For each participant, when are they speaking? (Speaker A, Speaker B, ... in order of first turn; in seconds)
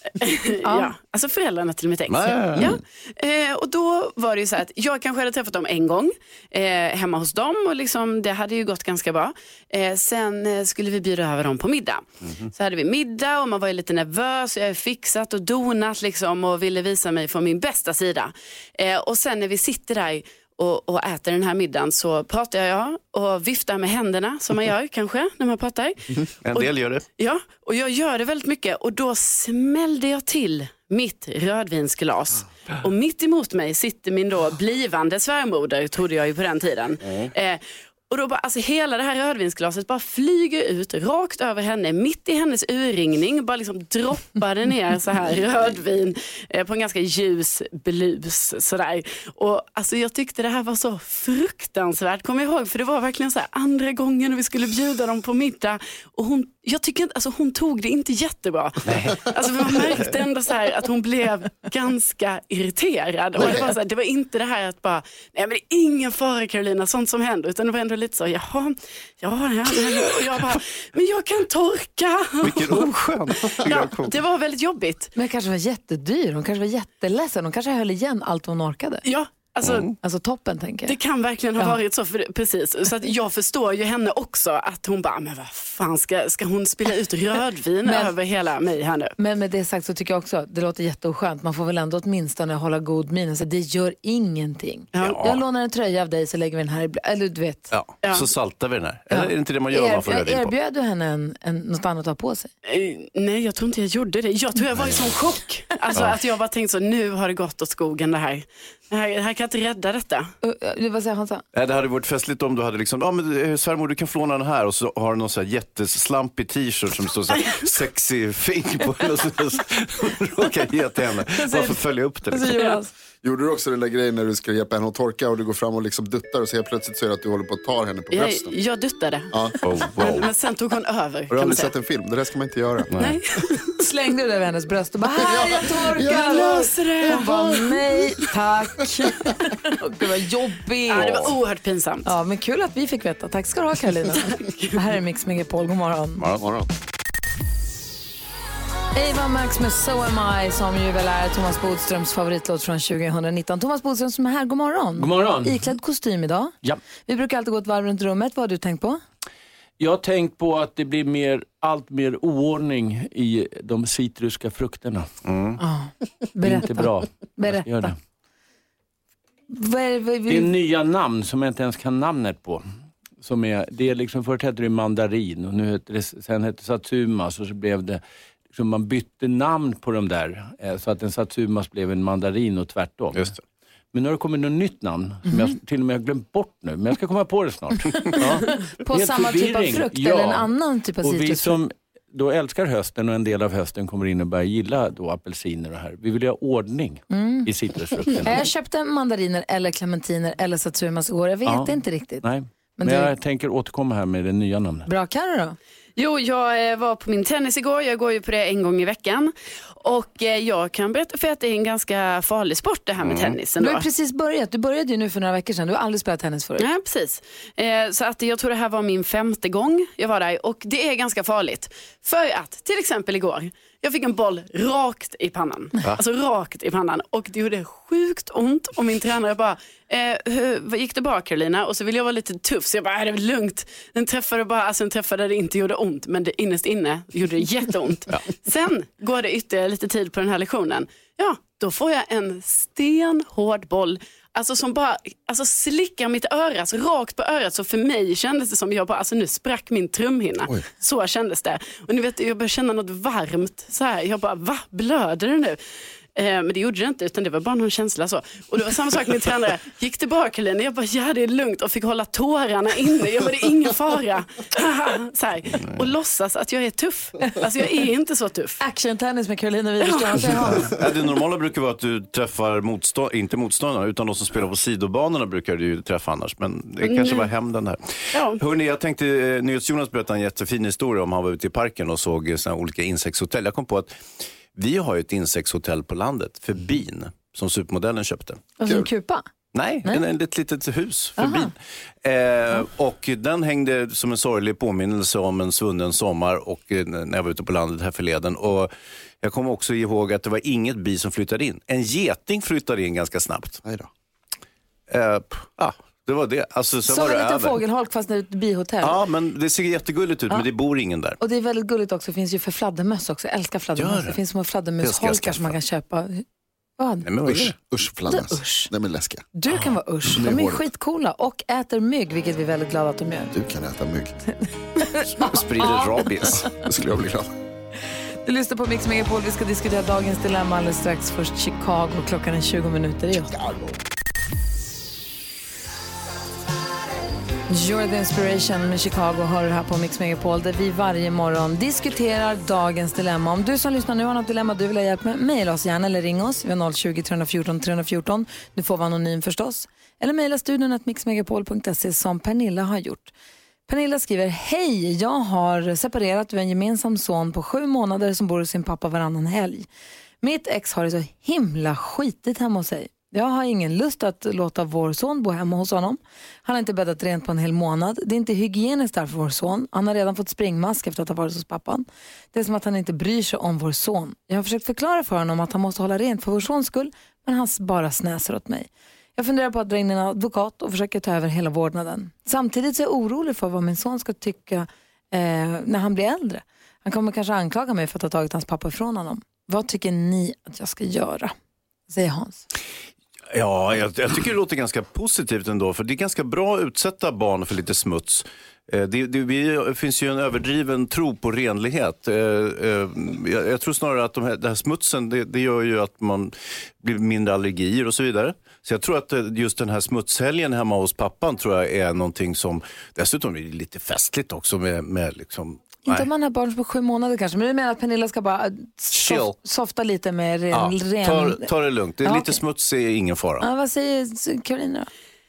Speaker A: 0.2-75.1, 79.0-79.9, 80.9-89.1, 94.9-95.2, 98.0-98.3, 102.7-110.3, 128.1-131.7, 133.0-133.3, 136.0-137.6, 140.9-142.1, 144.4-144.7, 206.0-213.9, 216.6-255.6, 256.1-268.6, 269.8-270.3, 276.8-277.3, 278.1-278.4
Speaker B: 0.6-0.9, 75.2-79.0, 80.0-81.0, 87.8-88.1, 89.2-97.7, 99.1-102.5, 110.4-111.4, 121.4-122.9, 133.8-141.1, 142.1-146.2, 148.9-156.5, 157.1-159.0, 165.6-167.9, 169.5-170.5, 188.0-191.6, 197.1-197.5, 198.2-202.2, 202.8-203.1, 204.9-205.6, 213.6-216.7, 268.6-270.7, 288.6-289.2, 291.2-291.5, 306.9-309.0, 311.2-316.2, 316.8-317.1, 318.1-318.7, 319.4-323.4, 324.8-326.1, 328.2-333.5, 337.5-353.1, 353.7-359.7, 360.2-391.3, 391.9-392.4, 415.9-421.5, 422.0-422.4, 423.4-424.9
Speaker C: 2.1-2.8, 12.2-12.5, 26.4-27.1, 58.9-59.8, 72.4-74.2, 79.6-80.0, 95.0-95.4, 97.7-100.5, 104.8-105.0, 111.5-122.7, 129.6-130.3, 132.9-133.2, 140.9-141.3, 146.2-146.5, 165.2-165.6, 183.1-183.4, 213.0-213.3, 265.6-265.8, 270.6-288.8, 289.5-298.7, 299.2-303.6, 304.9-307.6, 308.8-311.2, 313.8-314.2, 314.8-315.6, 317.0-317.6, 325.2-326.5, 393.3-416.1, 418.9-419.4, 420.5-423.5
Speaker D: 123.2-128.5, 129.3-130.2, 131.3-133.1, 135.2-136.7, 146.4-146.7, 317.3-319.2, 320.1-320.6, 323.3-324.2, 326.5-327.3
Speaker E: 155.0-155.7, 159.8-165.1, 166.4-167.9, 170.3-172.6, 173.2-178.0, 178.5-183.3, 183.9-190.5, 191.0-198.3, 201.5-204.9